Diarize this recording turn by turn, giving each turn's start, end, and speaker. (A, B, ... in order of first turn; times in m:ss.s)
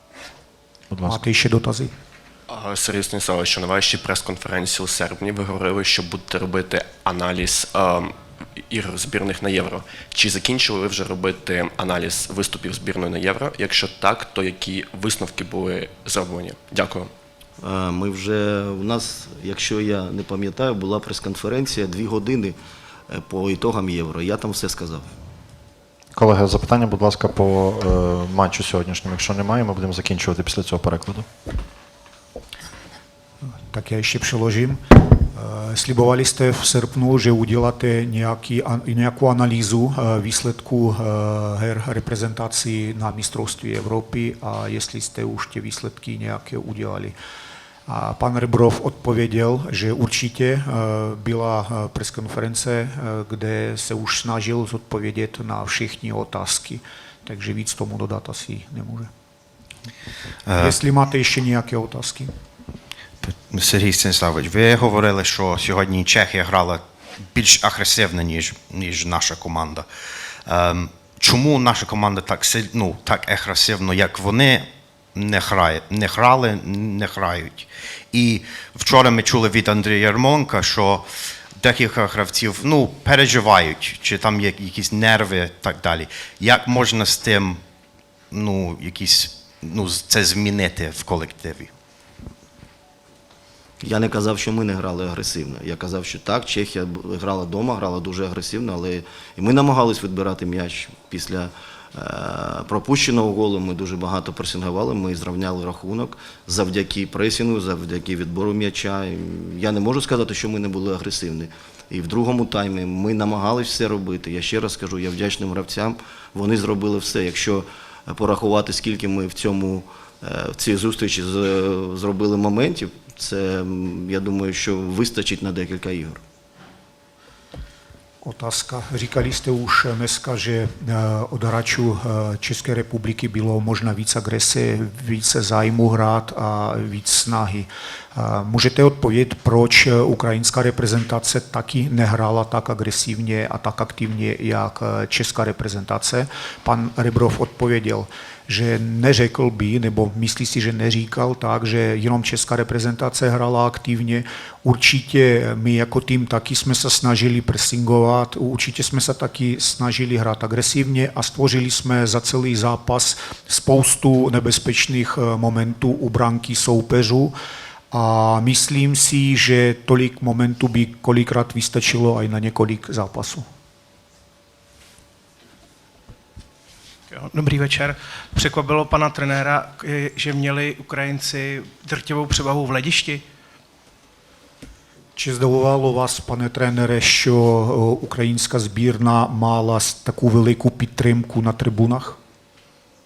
0:00.9-0:01.2 A
0:01.0-0:01.9 B
0:02.5-0:08.1 C
0:08.7-0:17.1 C
0:17.6-0:22.6 D
0:23.1-0:25.1 D
0:26.1-0:31.2 A
0:33.7-0:47.1 B
0:47.9-0:59.1 B
1:00.5-1:00.8 E
1:00.6-1:02.3 B
1:03.2-1:06.8 E
1:07.3-1:09.9 E
1:10.5-1:21.0 E
1:21.6-1:27.6 E
1:28.3-1:31.7 E
1:33.8-2:06.2 D
2:08.2-2:47.3 B
2:47.9-2:53.4 B
2:57.1-3:03.2 F
3:05.2-3:12.2 B